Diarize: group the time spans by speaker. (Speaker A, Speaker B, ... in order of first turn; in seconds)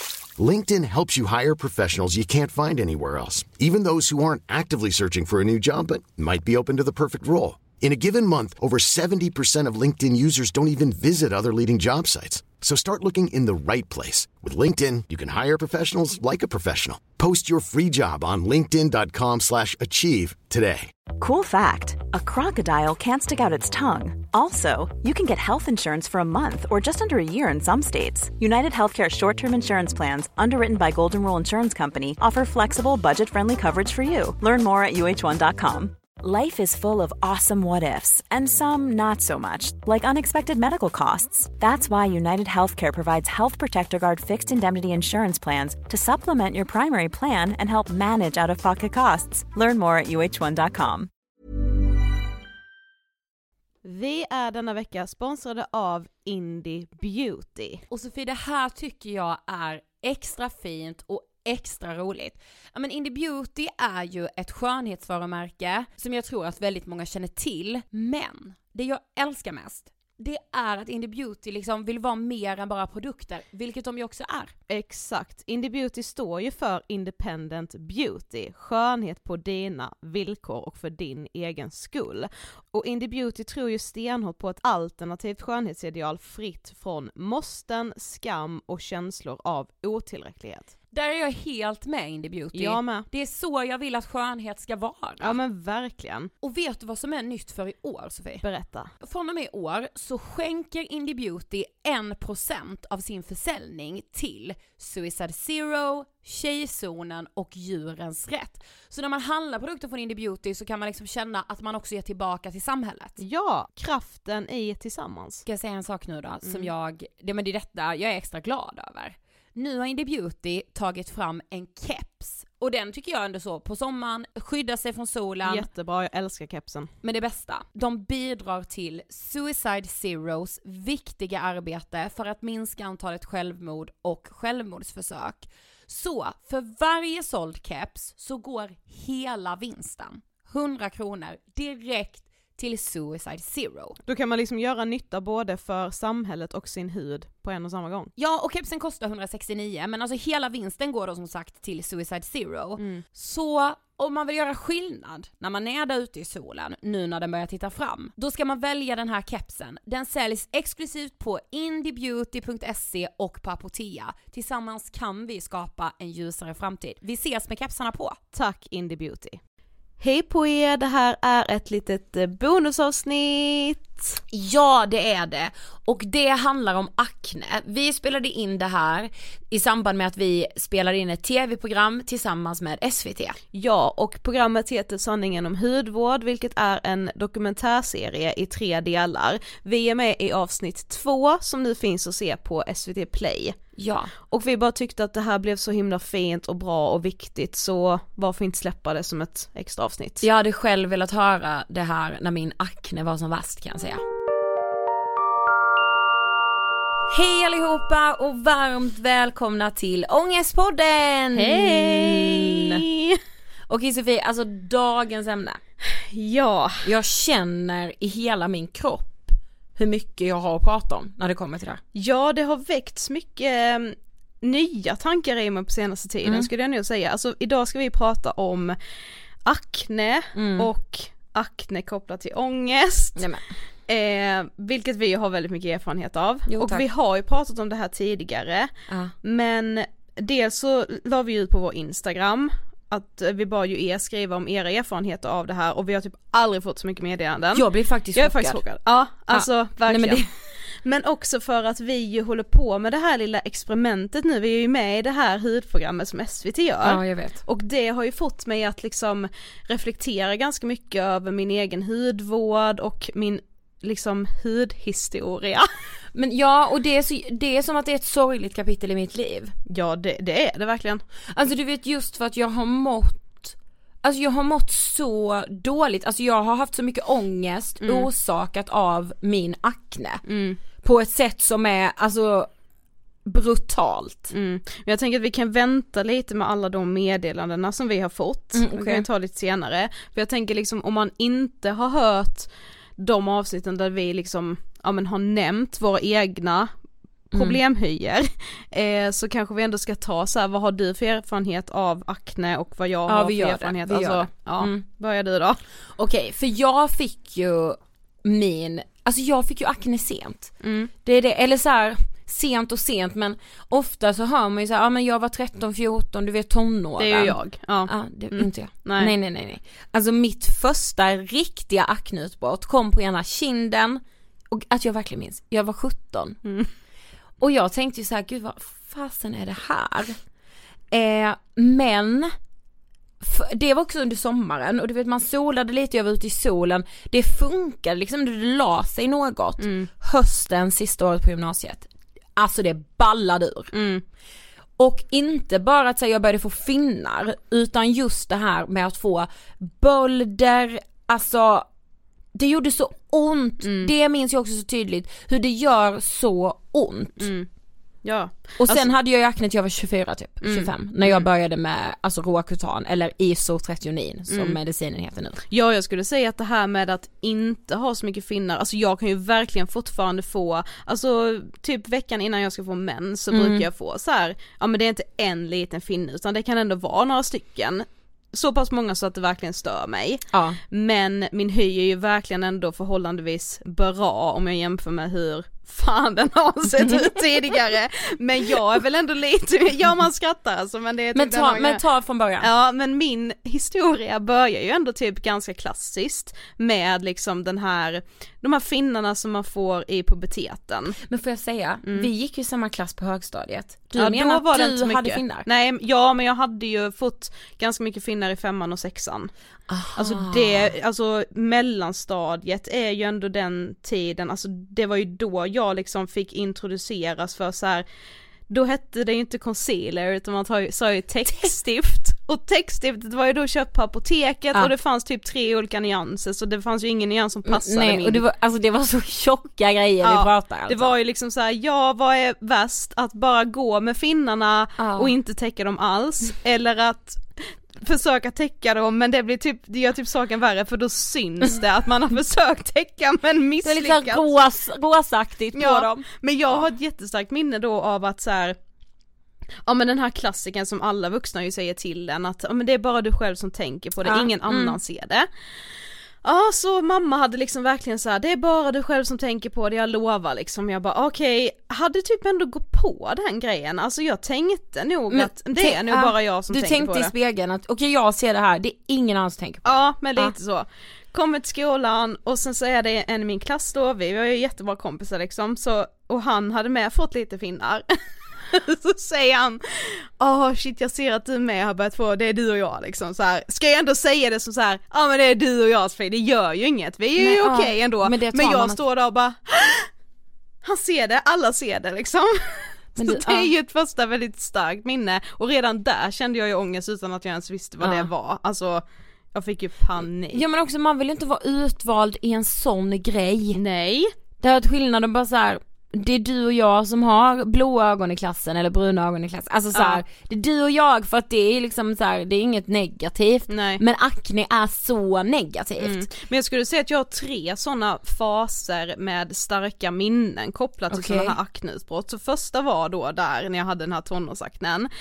Speaker A: 0.4-20.9
Speaker B: 21.1-51.1
Speaker C: 53.8-57.8, 74.7-90.7, 92.5-93.1, 95.2-96.3, 98.4-98.9, 113.2-115.4, 116.4-116.7, 125.4-126.9, 144.1-148.1, 152.8-153.0, 168.3-169.4, 170.0-174.2, 183.5-193.6, 194.3-200.2, 211.3-213.2, 215.9-216.9, 221.9-228.8, 229.4-233.3, 233.9-238.7, 239.2-265.7, 269.7-271.0, 277.8-278.1, 280.3-280.6, 284.3-296.7, 297.3-305.6, 310.6-310.9, 317.0-319.1, 326.4-326.7, 339.6-339.9, 343.7-344.0, 353.6-353.9, 357.2-357.5, 358.0-358.9, 360.4-361.3, 364.3-364.6, 365.5-391.8, 392.4-401.0, 404.0-409.3, 409.9-417.8, 418.5-428.2, 430.0-444.2, 445.5-448.6, 449.6-455.3, 456.2-467.1, 469.6-477.8, 478.5-489.9, 490.6-500.4, 503.6-504.1, 509.7-510.0, 513.5-513.8, 515.8-524.9
Speaker D: 57.9-74.5, 90.9-95.3, 96.4-98.4, 99.0-113.2, 115.5-125.7, 127.0-144.0, 148.2-168.2, 174.3-183.4, 193.8-194.1, 200.2-204.0, 207.1-212.8, 213.7-215.6, 216.8-221.8, 230.3-230.7, 233.2-233.4, 236.5-236.8, 238.9-239.1, 247.5-248.6, 249.3-250.2, 256.8-257.4, 266.1-269.5, 271.3-280.2, 280.8-282.5, 283.2-284.3, 288.5-289.1, 297.3-297.6, 303.1-304.8, 305.9-310.5, 311.0-326.4, 327.4-330.2, 330.9-332.3, 333.2-343.7, 344.8-351.6, 352.3-357.3, 358.6-365.4, 373.3-373.6, 380.3-380.6, 386.8-387.1, 391.1-392.5, 401.0-405.4, 409.7-410.7, 427.4-430.9, 434.8-435.1, 443.6-446.1, 454.0-454.8, 465.1-470.3, 487.2-488.8, 493.0-493.5, 497.8-498.1, 500.3-503.6, 504.4-516.1, 520.9-521.4